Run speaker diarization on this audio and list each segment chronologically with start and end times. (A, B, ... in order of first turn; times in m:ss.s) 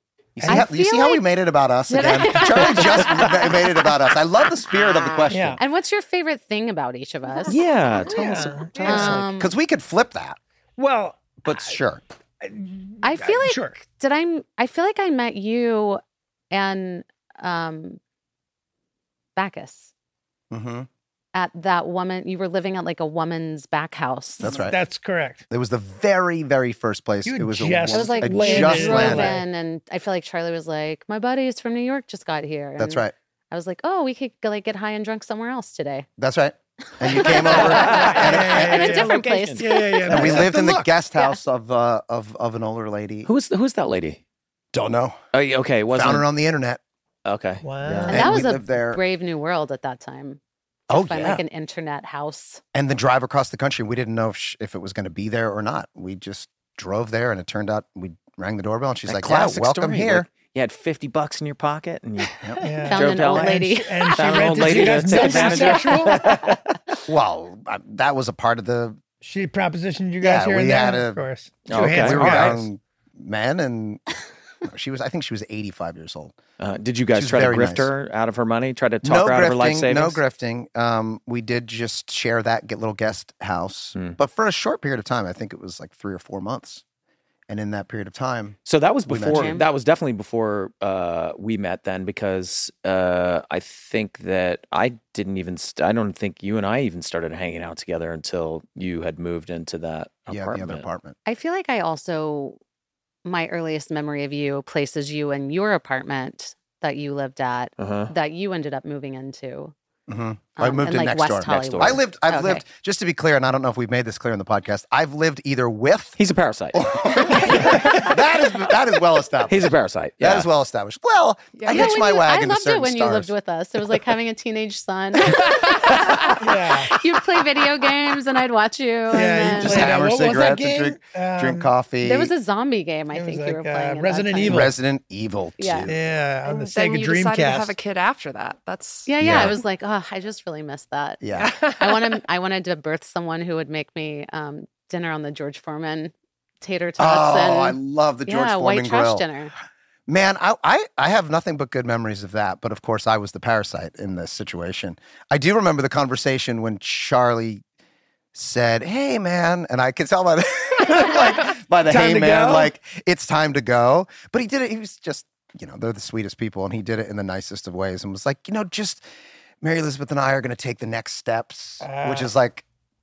0:00.4-0:00.6 A
0:00.4-0:00.6 B
0:00.4-0:05.6 C
0:00.5-0:01.2 D
0:01.9-0:03.9 D
0:04.7-0:07.6 D
0:05.3-0:05.6 B
0:07.5-0:09.3 B
0:07.5-0:09.2 A
0:08.7-0:09.5 D
0:09.4-0:10.4 C
0:10.8-0:11.8 B
0:11.4-0:12.0 C
0:12.4-0:13.8 B
0:13.0-0:18.0 D
0:19.4-0:19.9 D
0:20.5-0:20.9 C
0:21.3-0:24.6 D
0:24.4-0:24.8 C
0:24.5-0:25.4 B
0:25.5-0:29.4 C
0:27.2-0:29.4 B
0:27.9-0:36.1 D
0:32.8-0:33.1 C
0:36.2-0:38.7 C
0:37.1-0:40.4 D
0:37.5-0:40.9 B
0:37.6-0:40.2 A
0:38.8-0:39.0 E
0:40.0-0:43.3 C
0:43.2-0:44.2 A
0:44.7-0:45.2 C
0:45.3-0:46.2 A
0:45.9-0:46.8 C
0:47.2-0:48.2 A
0:47.6-0:48.3 B
0:48.1-0:49.0 C
0:48.1-0:52.6 D
0:50.9-0:51.4 C
0:52.7-1:00.3 C
0:59.1-1:03.6 A
1:02.6-1:06.4 B
1:02.8-1:06.1 D
1:04.1-1:07.0 A
1:05.2-1:05.5 C
1:07.1-1:09.0 C
1:09.2-1:12.6 B
1:10.2-1:14.0 C
1:11.7-1:12.6 A
1:14.6-1:16.4 C
1:16.6-1:20.2 A
1:17.1-1:17.9 C
1:19.0-1:26.8 C
1:27.5-1:28.6 C
1:28.6-1:40.9 A
1:29.1-1:29.6 C
1:29.2-1:29.6 D
1:40.3-1:41.2 C
1:41.2-1:42.6 D
1:43.2-1:49.7 D
1:47.8-1:48.1 A
1:50.1-1:56.2 C
1:50.6-1:52.6 D
1:51.4-1:52.0 A
1:56.2-1:58.2 A
1:56.7-2:03.3 C
1:59.5-2:00.5 A
2:01.6-2:01.9 E
2:01.6-2:10.0 D
2:06.4-2:07.0 B
2:09.1-2:11.7 B
2:09.6-2:12.3 C
2:12.0-2:14.7 D
2:13.1-2:14.7 B
2:14.4-2:16.0 C
2:15.6-2:15.9 D
2:15.9-2:17.8 B
2:16.4-2:19.1 E
2:19.0-2:21.2 D
2:19.2-2:19.6 C
2:21.2-2:21.5 C
2:21.3-2:22.2 E
2:21.8-2:29.5 D
2:27.0-2:29.3 C
2:30.1-2:37.6 C
2:38.3-2:49.0 C
2:41.9-2:42.7 B
2:49.6-2:52.6 C
2:51.8-2:52.3 B